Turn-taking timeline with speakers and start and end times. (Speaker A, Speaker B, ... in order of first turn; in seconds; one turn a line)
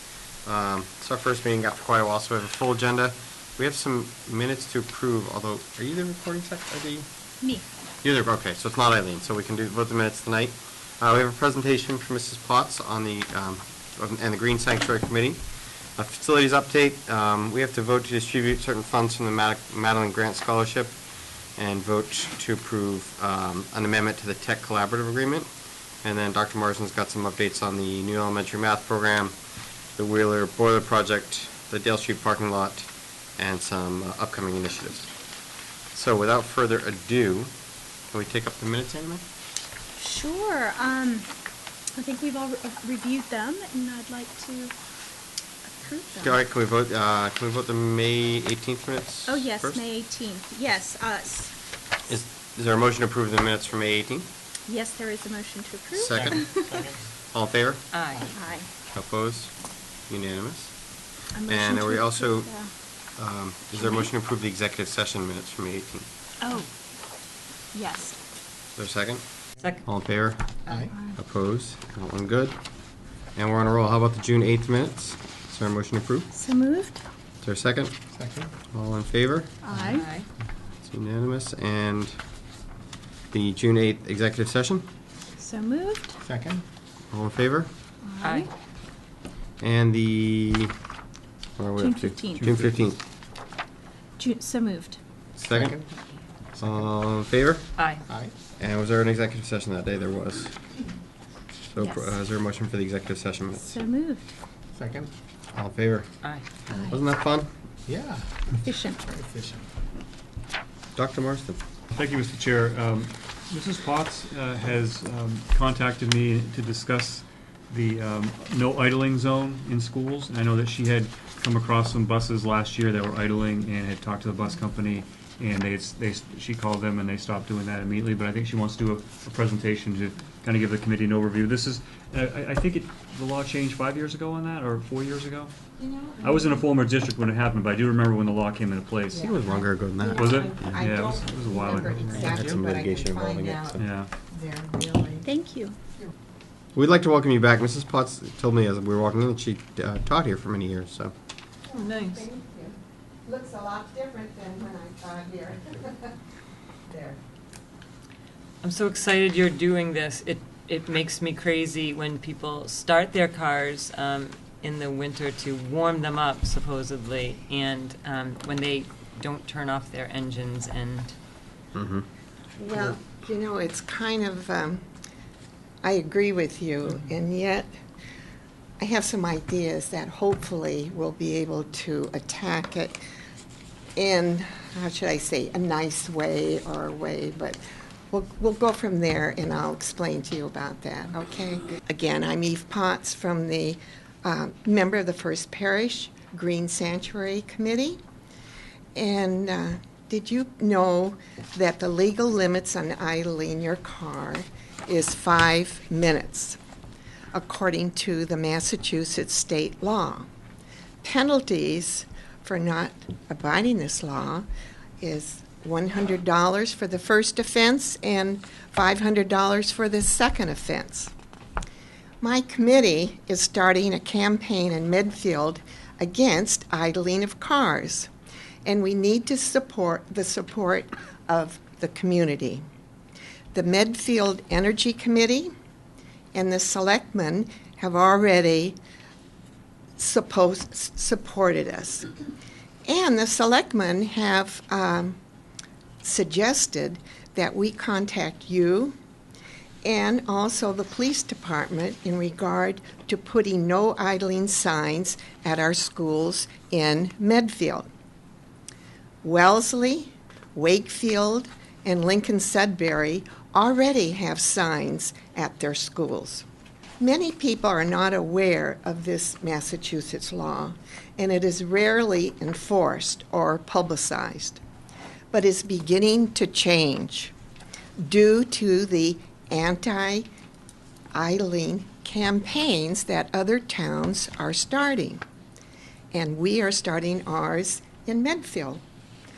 Speaker A: 0.4-7.1
Speaker A: 8.0-15.4
Speaker A: 15.9-20.9
Speaker A: 21.6-25.5
Speaker A: 26.0-29.3
Speaker A: 30.0-35.1
Speaker A: 35.9-37.5
Speaker A: 38.1-39.2
Speaker B: 40.0-41.3
Speaker B: 42.0-44.7
Speaker B: 45.7-46.4
Speaker A: 46.1-49.8
Speaker B: 49.2-51.5
Speaker A: 52.1-54.3
Speaker B: 54.7-56.8
Speaker A: 55.9-57.9
Speaker C: 56.2-57.0
Speaker D: 57.9-58.3
Speaker B: 58.3-58.7
Speaker A: 58.9-59.5
Speaker A: 60.1-60.7
Speaker B: 61.3-62.7
Speaker A: 61.5-62.5
Speaker A: 63.2-66.1
Speaker B: 63.8-64.1
Speaker B: 66.4-66.7
Speaker B: 67.7-68.2
Speaker A: 68.8-72.5
Speaker C: 70.7-71.0
Speaker A: 73.3-76.3
Speaker B: 76.3-77.0
Speaker A: 77.4-77.9
Speaker C: 78.1-78.5
Speaker A: 78.7-79.7
Speaker B: 79.6-80.1
Speaker D: 79.9-80.3
Speaker A: 80.8-82.2
Speaker A: 83.3-84.8
Speaker B: 85.4-86.2
Speaker C: 86.2-86.6
Speaker A: 87.1-87.7
Speaker B: 88.0-88.5
Speaker D: 88.2-88.5
Speaker A: 89.6-90.7
Speaker A: 91.6-93.0
Speaker B: 91.8-92.4
Speaker E: 92.3-92.8
Speaker B: 94.2-95.0
Speaker A: 95.4-95.8
Speaker C: 95.4-95.8
Speaker C: 96.6-96.9
Speaker A: 96.6-97.8
Speaker D: 97.8-98.0
Speaker C: 98.1-98.3
Speaker A: 98.6-100.5
Speaker A: 101.7-103.8
Speaker B: 101.8-102.1
Speaker B: 103.6-104.3
Speaker C: 104.7-105.1
Speaker A: 105.5-106.1
Speaker A: 106.7-107.5
Speaker B: 106.7-107.0
Speaker C: 107.8-109.7
Speaker B: 108.7-109.0
Speaker A: 111.0-111.6
Speaker E: 111.9-135.5
Speaker F: 135.8-136.7
Speaker E: 136.2-139.3
Speaker F: 139.1-145.3
Speaker A: 139.2-140.8
Speaker E: 140.1-142.4
Speaker A: 142.2-143.8
Speaker E: 143.8-144.1
Speaker B: 145.2-145.8
Speaker A: 146.8-151.1
Speaker F: 151.7-156.1
Speaker D: 151.8-152.2
Speaker F: 156.9-157.2
Speaker D: 158.6-171.1
Speaker A: 171.7-172.0
Speaker F: 172.6-174.8
Speaker F: 175.8-177.7
Speaker F: 178.8-183.0
Speaker F: 183.9-187.6
Speaker F: 188.1-198.0
Speaker F: 198.9-206.6
Speaker F: 207.3-210.3
Speaker F: 211.0-214.4
Speaker F: 215.0-221.1
Speaker F: 222.2-228.1
Speaker F: 228.6-232.6
Speaker F: 233.5-235.5
Speaker F: 236.3-238.8
Speaker F: 240.0-242.1
Speaker F: 242.8-245.2
Speaker F: 246.0-248.9
Speaker F: 249.8-257.9
Speaker F: 259.2-266.4
Speaker F: 267.0-274.6
Speaker F: 275.3-277.3
Speaker F: 278.0-280.2
Speaker F: 281.1-285.2
Speaker F: 286.1-288.8